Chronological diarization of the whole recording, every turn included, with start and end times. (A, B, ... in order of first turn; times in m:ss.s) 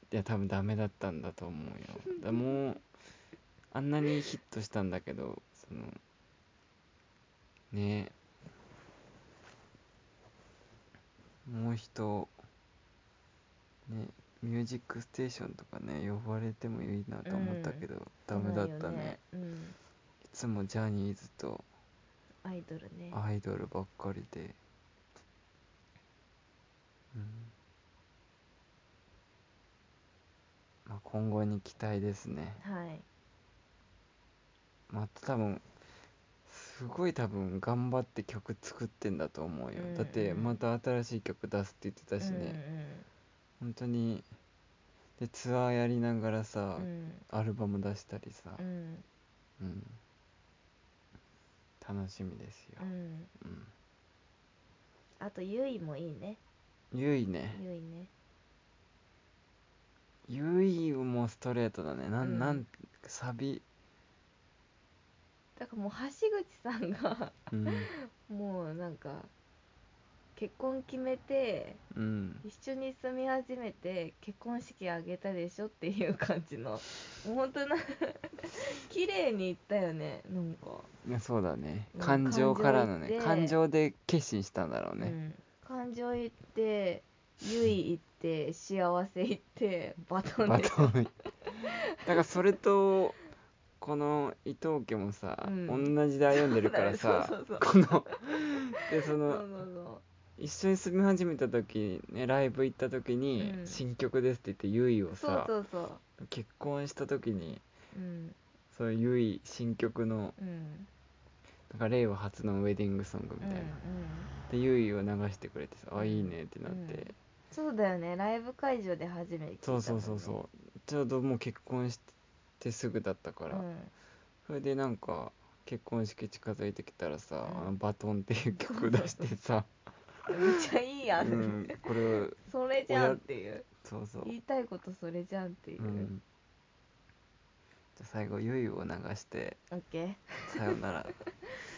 0:00.1-0:02.8 A
0:03.7-0:06.0 A
0:07.7-0:08.1 A
0:11.4-0:12.3 A
0:13.9-0:19.2 A
0:17.2-0:19.8 B
0:20.2-0:21.6 A
0:22.4-0:23.2 B
0:23.1-0:24.6 A
0:27.1-0:27.5 A
0:30.8-0:32.6 A
0:32.6-0:33.0 B
0:34.9-0:35.6 A
0:36.5-0:42.6 A
0:39.7-0:40.6 B
0:42.2-0:43.0 B
0:43.6-0:44.3 A
0:45.2-0:48.6 A
0:46.8-0:47.2 B
0:48.6-0:49.0 B
0:49.6-0:50.0 A
0:51.8-0:53.7 A
0:52.8-0:53.3 B
0:55.2-0:56.4 B
0:56.9-0:57.6 A
0:57.5-0:58.1 B
1:00.3-1:03.6 A
1:02.2-1:02.6 B
1:05.6-1:07.4 B
1:07.5-1:07.9 A
1:07.9-1:09.3 B
1:10.4-1:11.8 B
1:11.9-1:12.4 A
1:12.4-1:20.9 B
1:21.0-1:25.2 A
1:21.9-1:23.6 B
1:25.0-1:30.9 B
1:30.4-1:31.1 A
1:31.4-1:31.8 B
1:32.0-1:33.2 A
1:33.8-1:39.5 A
1:35.4-1:38.4 B
1:39.2-1:40.0 B
1:40.4-1:45.5 A
1:43.4-1:43.8 B
1:45.1-1:46.0 B
1:46.2-1:47.6 A
1:47.9-1:48.4 B
1:48.7-1:50.4 A
1:50.4-1:50.9 B
1:51.7-1:53.8 A
1:53.4-1:54.3 B
1:54.5-1:57.1 A
1:56.0-2:00.4 B
1:59.6-2:02.0 A
2:02.6-2:03.6 A
2:03.5-2:03.9 B
2:04.4-2:09.7 A
2:07.4-2:07.7 B
2:08.6-2:09.2 B
2:10.3-2:11.8 B
2:11.2-2:13.2 A
2:12.4-2:13.7 B
2:13.8-2:14.3 A
2:14.2-2:16.1 B
2:15.8-2:16.2 A
2:18.0-2:19.6 A
2:19.7-2:20.6 B
2:20.5-2:21.1 A